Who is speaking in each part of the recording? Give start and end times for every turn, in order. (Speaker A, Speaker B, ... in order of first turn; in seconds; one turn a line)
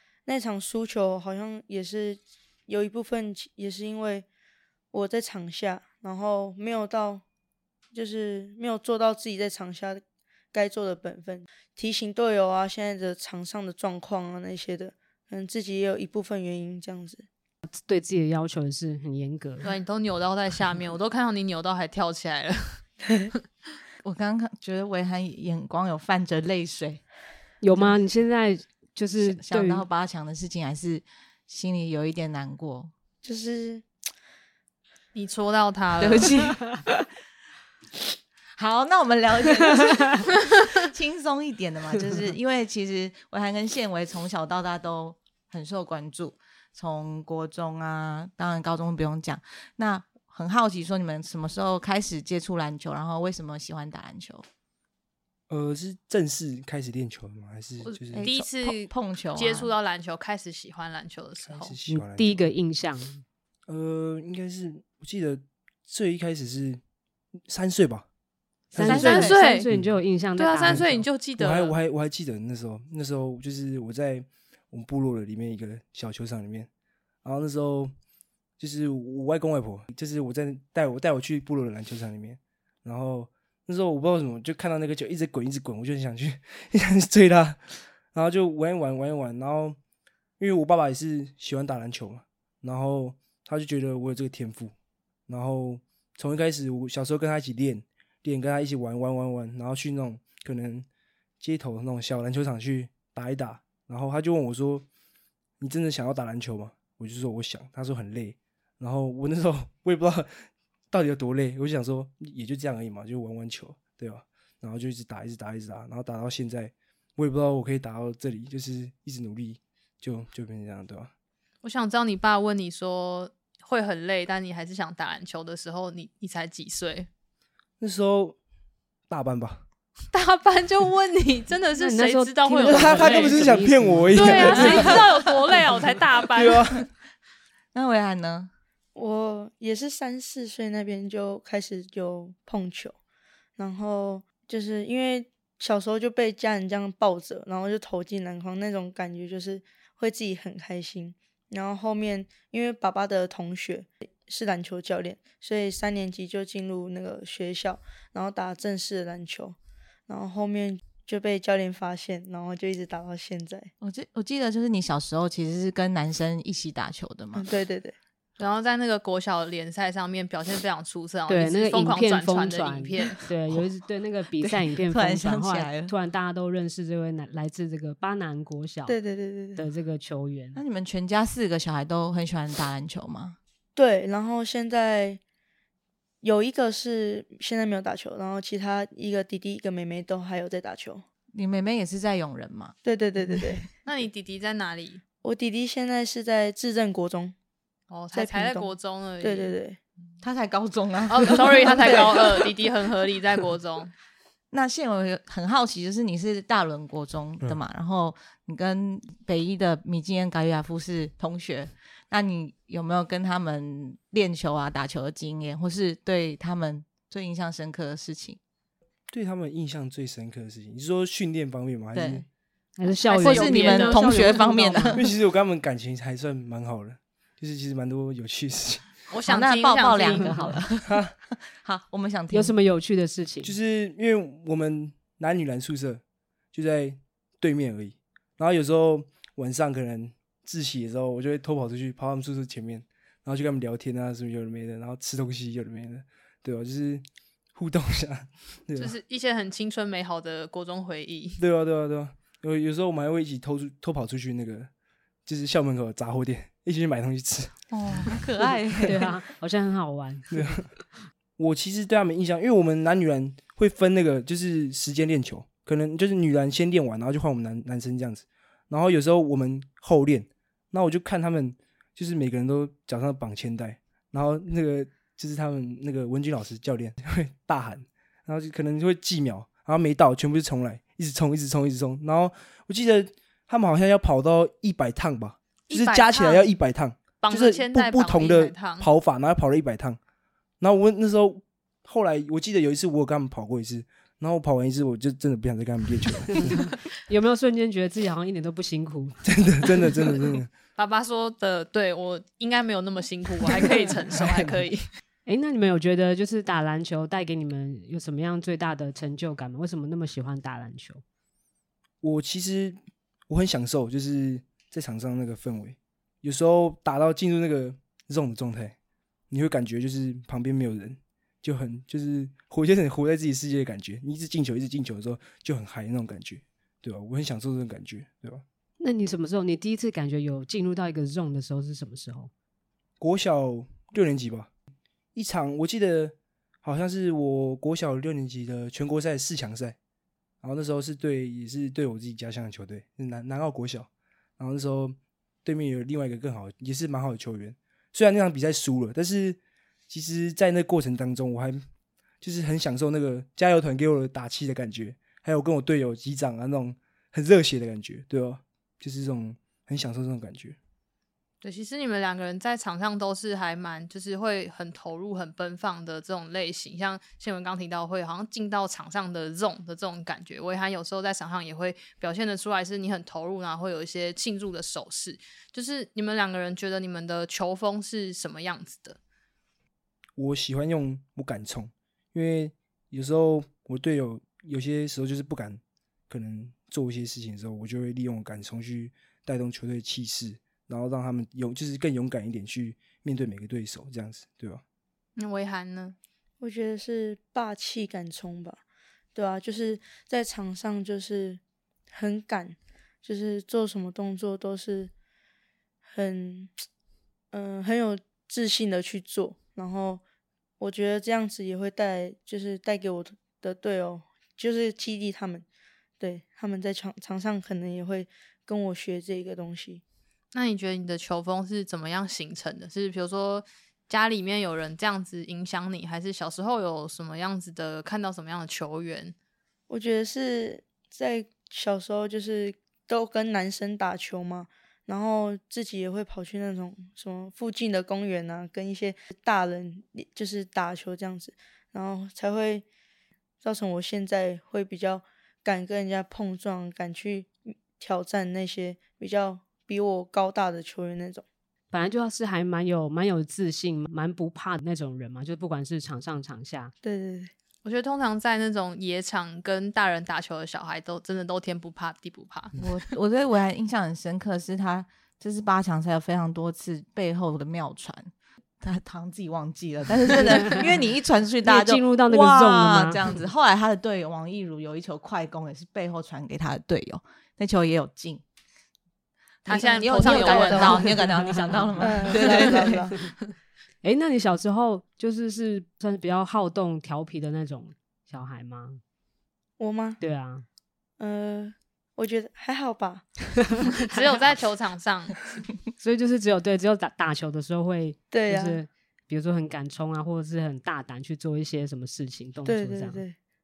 Speaker A: 0.2-4.2
Speaker A: 4.9-7.2
Speaker A: 7.9-10.0
Speaker A: 10.5-17.2
Speaker B: 17.9-19.7
Speaker C: 19.6-22.8
Speaker A: 23.0-23.3
Speaker D: 24.0-27.0
Speaker B: 27.6-29.9
Speaker D: 29.2-32.9
Speaker A: 33.2-33.8
Speaker C: 35.1-36.3
Speaker D: 36.0-37.0
Speaker D: 38.6-54.4
Speaker E: 55.5-58.3
Speaker C: 57.8-61.8
Speaker A: 58.1-58.6
Speaker D: 58.7-59.7
Speaker E: 61.5-62.5
Speaker B: 61.9-63.2
Speaker E: 63.7-66.8
Speaker E: 67.5-68.1
Speaker E: 68.7-69.1
Speaker B: 68.7-71.0
Speaker D: 68.8-69.4
Speaker C: 68.9-69.7
Speaker E: 69.7-70.0
Speaker C: 70.4-71.7
Speaker E: 70.7-76.7
Speaker E: 77.2-77.9
Speaker E: 78.6-89.8
Speaker E: 90.4-94.7
Speaker E: 95.3-100.9
Speaker E: 101.4-104.8
Speaker E: 105.6-121.1
Speaker C: 121.6-127.1
Speaker E: 127.8-128.4
Speaker E: 129.1-129.6
Speaker C: 130.1-133.5
Speaker B: 131.8-135.0
Speaker E: 132.6-135.0
Speaker C: 134.1-136.6
Speaker E: 136.3-136.9
Speaker D: 137.7-138.5
Speaker A: 138.9-142.9
Speaker A: 143.6-159.6
Speaker A: 160.1-163.7
Speaker D: 163.8-167.4
Speaker A: 167.3-167.9
Speaker C: 168.4-173.2
Speaker B: 171.3-178.9
Speaker D: 173.0-173.7
Speaker D: 174.4-175.9
Speaker A: 178.9-179.6
Speaker B: 179.6-180.6
Speaker D: 180.5-183.4
Speaker A: 183.8-185.2
Speaker A: 186.2-191.0
Speaker D: 191.3-192.8
Speaker A: 192.8-193.6
Speaker D: 193.3-193.6
Speaker C: 193.8-195.0
Speaker A: 195.2-197.3
Speaker C: 197.9-199.5
Speaker A: 198.1-199.8
Speaker D: 200.2-202.5
Speaker C: 201.1-203.9
Speaker D: 204.5-218.4
Speaker E: 219.1-222.2
Speaker D: 221.9-222.2
Speaker B: 222.8-225.0
Speaker C: 223.1-224.2
Speaker D: 223.1-225.0
Speaker E: 224.9-228.9
Speaker C: 229.1-230.4
Speaker D: 229.2-232.5
Speaker B: 230.0-230.6
Speaker E: 230.8-231.1
Speaker B: 232.3-233.6
Speaker E: 233.4-236.0
Speaker E: 236.5-247.0
Speaker E: 247.5-249.0
Speaker C: 248.8-251.4
Speaker E: 251.4-254.7
Speaker E: 255.2-257.6
Speaker D: 257.7-259.1
Speaker B: 258.8-260.7
Speaker E: 260.3-260.7
Speaker E: 261.4-290.0
Speaker C: 285.7-286.5
Speaker C: 287.2-288.9
Speaker E: 290.6-296.6
Speaker B: 296.3-299.2
Speaker E: 299.2-300.5
Speaker C: 300.8-304.8
Speaker B: 305.2-311.0
Speaker E: 312.0-312.8
Speaker E: 313.3-318.8
Speaker E: 319.3-328.4
Speaker B: 328.8-332.3
Speaker E: 333.0-334.5
Speaker E: 335.1-339.8
Speaker E: 340.4-351.6
Speaker E: 352.2-360.6
Speaker C: 361.4-379.0
Speaker E: 380.2-394.6
Speaker C: 395.2-395.9
Speaker A: 396.4-398.6
Speaker A: 399.1-401.4
Speaker A: 401.9-404.9
Speaker A: 405.9-406.5
Speaker A: 407.3-410.0
Speaker A: 410.6-415.4
Speaker A: 416.0-419.8
Speaker C: 420.3-429.1
Speaker A: 429.7-442.6
Speaker A: 443.4-451.2
Speaker B: 451.7-456.7
Speaker A: 456.8-457.3
Speaker C: 457.6-462.6
Speaker D: 462.6-478.2
Speaker B: 470.2-470.6
Speaker B: 471.4-473.0
Speaker D: 479.4-482.8
Speaker C: 479.5-480.9
Speaker A: 479.5-480.9
Speaker B: 481.2-482.1
Speaker A: 481.8-482.9
Speaker B: 483.8-488.8
Speaker A: 489.6-490.0
Speaker B: 490.0-490.4
Speaker A: 491.0-493.7
Speaker C: 493.8-495.4
Speaker B: 495.8-503.0
Speaker A: 498.1-498.6
Speaker A: 502.4-503.1